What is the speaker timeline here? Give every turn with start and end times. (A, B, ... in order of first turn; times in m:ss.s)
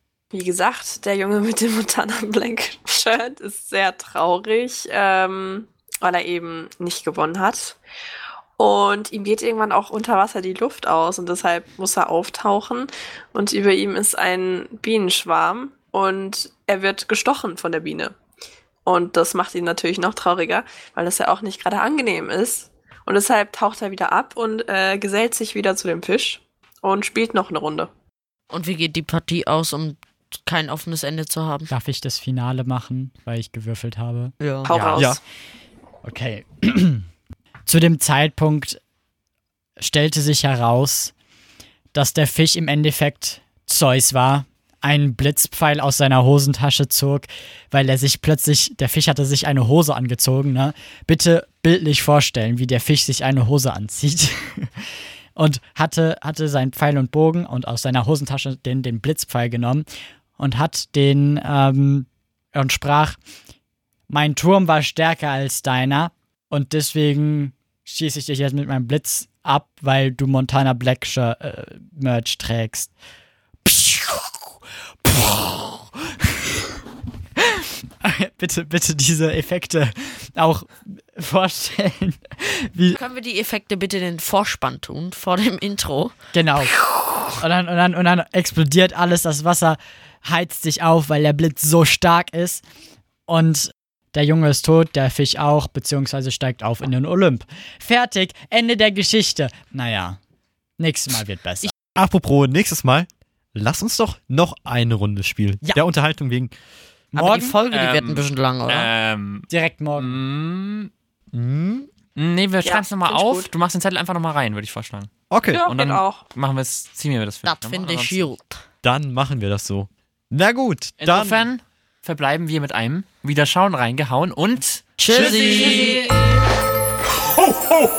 0:00.3-0:07.8 A
0:08.6-0:18.1 A
0:18.8-0:27.9 A
0:28.5-0:31.7 B
0:31.7-0:35.1 C
0:34.4-0:35.0 B
0:34.6-0:35.2 A
0:36.0-0:37.0 C
0:37.6-0:38.8 C
0:39.8-0:41.1 C
0:41.9-0:54.7 C
0:55.3-0:59.9 C
1:00.4-1:03.2 C
1:04.1-1:12.9 C
1:13.6-1:14.5 C
1:15.0-1:16.0 C
1:18.0-1:23.0 C
1:22.9-1:26.1 B
1:26.3-1:26.8 C
1:27.3-1:32.6 C
1:33.3-1:40.2 C
1:40.8-1:41.7 C
1:42.0-1:46.5 D
1:47.1-1:47.6 C
1:47.1-1:48.9 B
1:47.7-1:50.9 E
1:49.5-1:50.2 C
1:51.3-1:51.9 D
1:52.2-1:58.3 E
1:52.6-1:53.5 A
1:55.3-1:55.6 D
1:55.4-1:56.2 A
1:57.4-1:58.6 B
1:58.8-2:01.5 D
2:01.0-2:06.2 E
2:05.0-2:06.4 B